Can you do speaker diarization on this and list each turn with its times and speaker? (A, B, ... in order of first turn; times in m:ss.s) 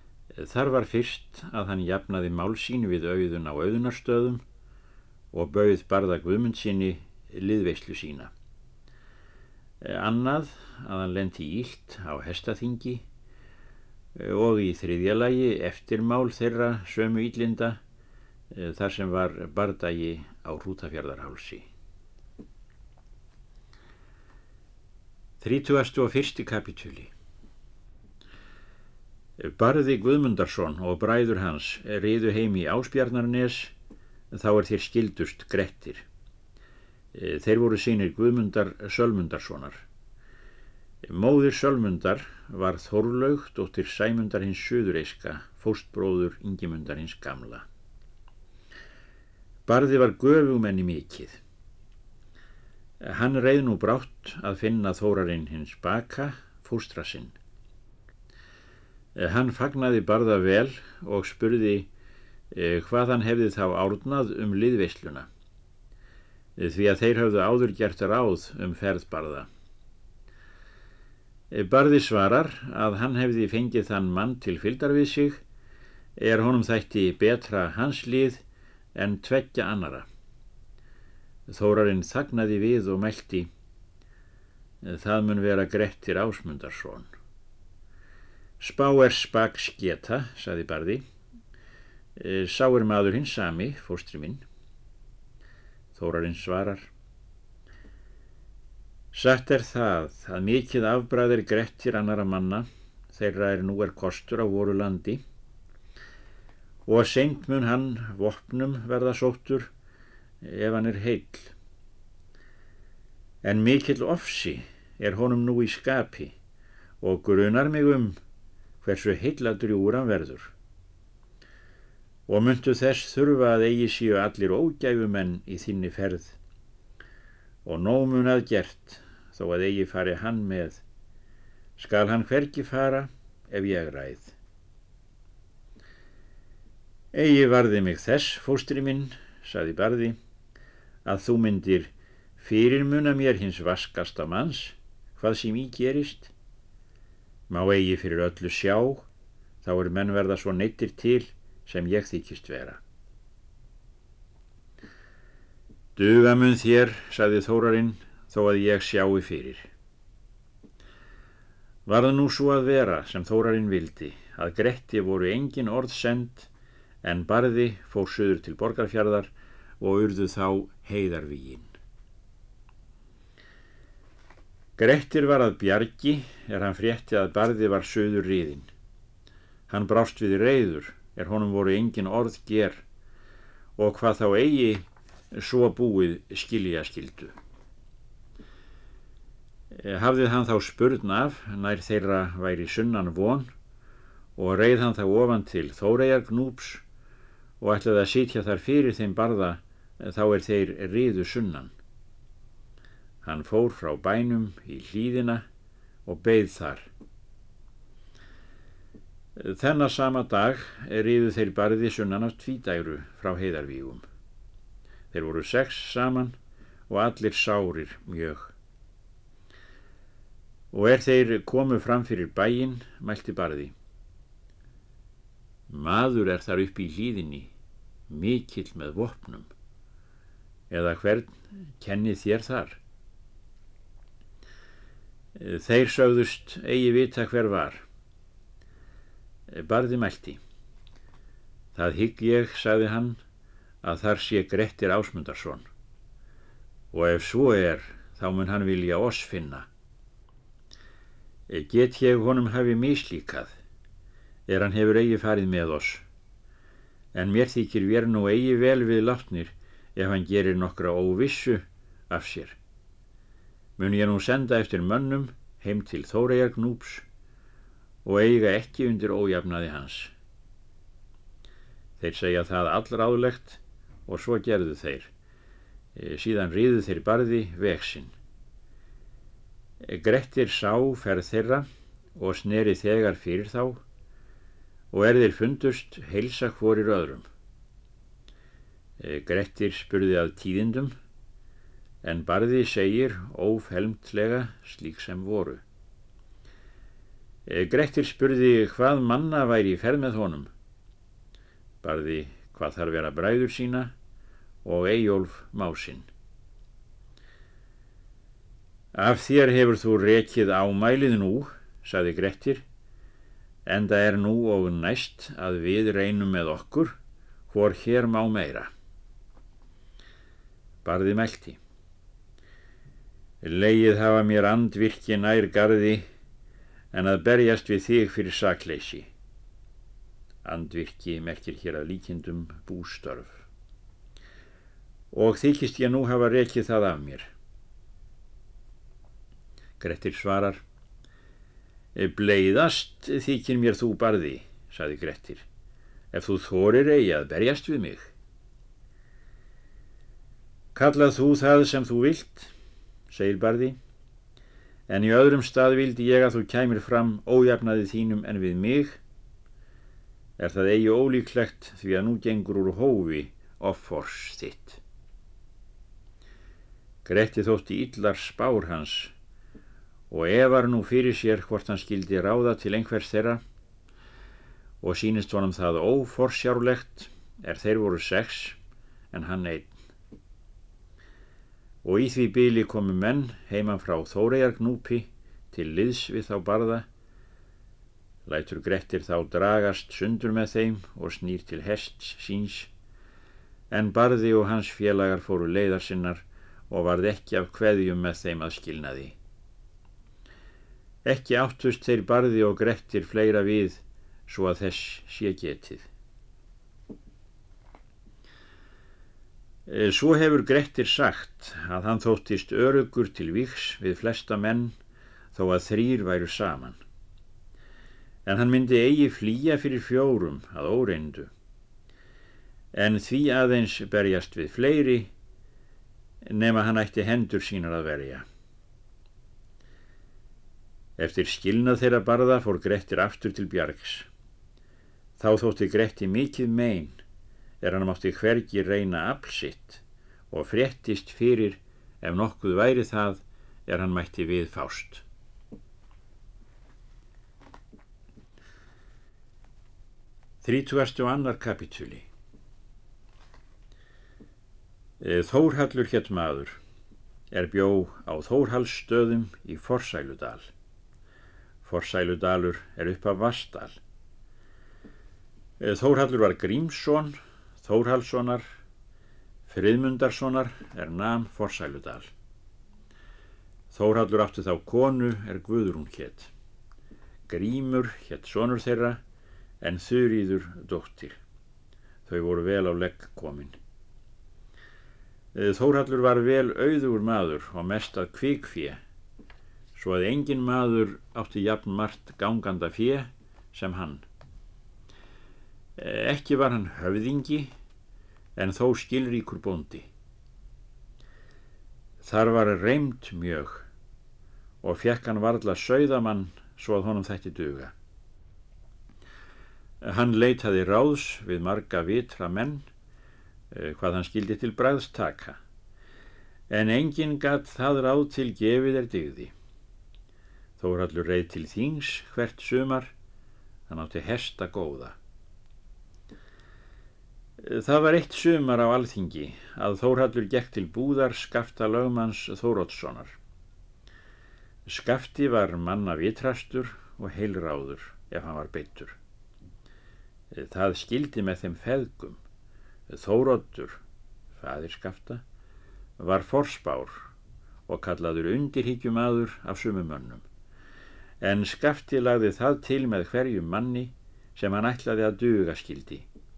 0:00.3-0:04.4 A
0:05.3-0:08.3 A
0:09.8-0:13.0 A
0:14.2-0:17.8 A
0:18.5-0:21.7 A
0:25.4-0:27.1 A
0:29.4-0:33.7 A
0:34.3-0:36.0 A
0:37.1-0:39.8 A
0:41.0-0:47.6 A
0:49.7-0:51.4 A
0:53.0-0:57.4 A
0:59.2-1:01.9 A
1:02.5-1:05.3 A
1:06.6-1:09.5 A
1:11.5-1:15.4 A
1:16.2-1:20.1 A
1:21.5-1:23.5 A
1:24.8-1:27.1 A
1:28.6-1:31.0 A
1:32.2-1:34.4 A
1:35.9-1:36.9 A
1:39.1-1:45.2 A
1:46.9-1:49.7 A
1:50.4-1:51.5 A
1:53.4-1:56.4 A
1:57.0-1:58.2 A
1:58.8-2:00.5 A
2:02.3-2:06.4 A
2:07.6-2:10.8 A
2:11.8-2:14.4 A
2:17.1-2:20.2 A
2:21.0-2:26.3 A
2:27.5-2:29.1 A
2:29.6-2:32.8 A
2:36.0-2:39.7 A
2:41.9-2:46.5 A
2:47.0-2:51.7 A
2:54.8-2:58.7 A
2:59.7-3:02.8 A
3:03.8-3:07.3 A
3:09.7-3:13.5 A
3:14.4-3:16.8 A
3:17.6-3:21.7 A
3:23.2-3:25.4 A
3:26.1-3:26.9 A
3:29.4-3:34.0 A
3:35.1-3:36.4 A
3:36.9-3:38.5 A
3:40.7-3:43.7 A
3:45.7-3:47.5 A
3:48.1-3:49.5 A
3:50.7-3:52.8 A
3:55.4-3:57.8 A
3:59.5-4:00.4 A
4:01.7-4:03.2 A
4:03.8-4:05.7 A
4:06.9-4:09.7 A
4:11.5-4:13.5 A
4:14.5-4:16.0 A
4:17.1-4:22.6 A
4:23.8-4:27.0 A
4:28.0-4:30.1 A
4:32.0-4:35.1 A
4:36.0-4:38.1 A
4:39.8-4:43.8 A
4:44.9-4:47.3 A
4:49.0-4:51.0 A
4:52.0-4:55.6 A
4:57.5-5:00.5 A
5:01.8-5:03.9 A
5:04.6-5:06.1 A
5:08.9-5:12.6 A
5:13.7-5:17.0 A
5:17.5-5:18.7 A
5:20.8-5:21.6 A
5:23.4-5:26.0 A
5:26.9-5:29.1 A
5:30.4-5:33.5 A
5:35.1-5:37.3 A
5:39.8-5:40.6 A
5:42.0-5:45.4 A
5:46.1-5:48.1 A
5:50.7-5:52.5 A
5:53.1-5:53.8 A
5:54.9-5:59.0 A
6:00.4-6:04.8 A
6:07.0-6:09.1 A
6:10.1-6:13.4 A
6:14.8-6:18.6 A
6:19.1-6:19.8 A
6:21.8-6:26.9 A
6:28.3-6:32.7 A
6:33.7-6:39.2 A
6:41.0-6:45.9 A
6:49.7-6:54.7 A
6:55.3-6:56.8 A
6:58.3-7:01.3 A
7:02.7-7:05.1 A
7:06.2-7:08.2 A
7:11.0-7:14.1 A
7:15.2-7:17.0 A
7:17.6-7:25.0 A
7:30.4-7:32.1 A
7:35.0-7:36.6 A
7:37.3-7:40.5 A
7:41.6-7:43.8 A
7:45.6-7:48.6 A
7:49.5-7:52.1 A
7:53.7-7:56.3 A
7:57.3-7:59.0 A
7:59.6-8:01.2 A
8:02.1-8:03.6 A
8:05.3-8:08.8 A
8:09.8-8:14.0 A
8:15.8-8:17.5 A
8:18.4-8:19.9 A
8:22.0-8:23.7 A
8:24.6-8:27.7 A
8:29.8-8:32.6 A
8:33.5-8:35.4 A
8:36.5-8:39.3 A
8:40.6-8:42.9 A
8:43.7-8:45.0 A
8:47.4-8:53.2 A
8:54.7-8:59.0 A
9:00.3-9:02.2 A
9:02.9-9:03.8 A
9:04.4-9:05.2 A
9:06.0-9:07.1 A
9:07.7-9:10.2 A
9:11.2-9:16.1 A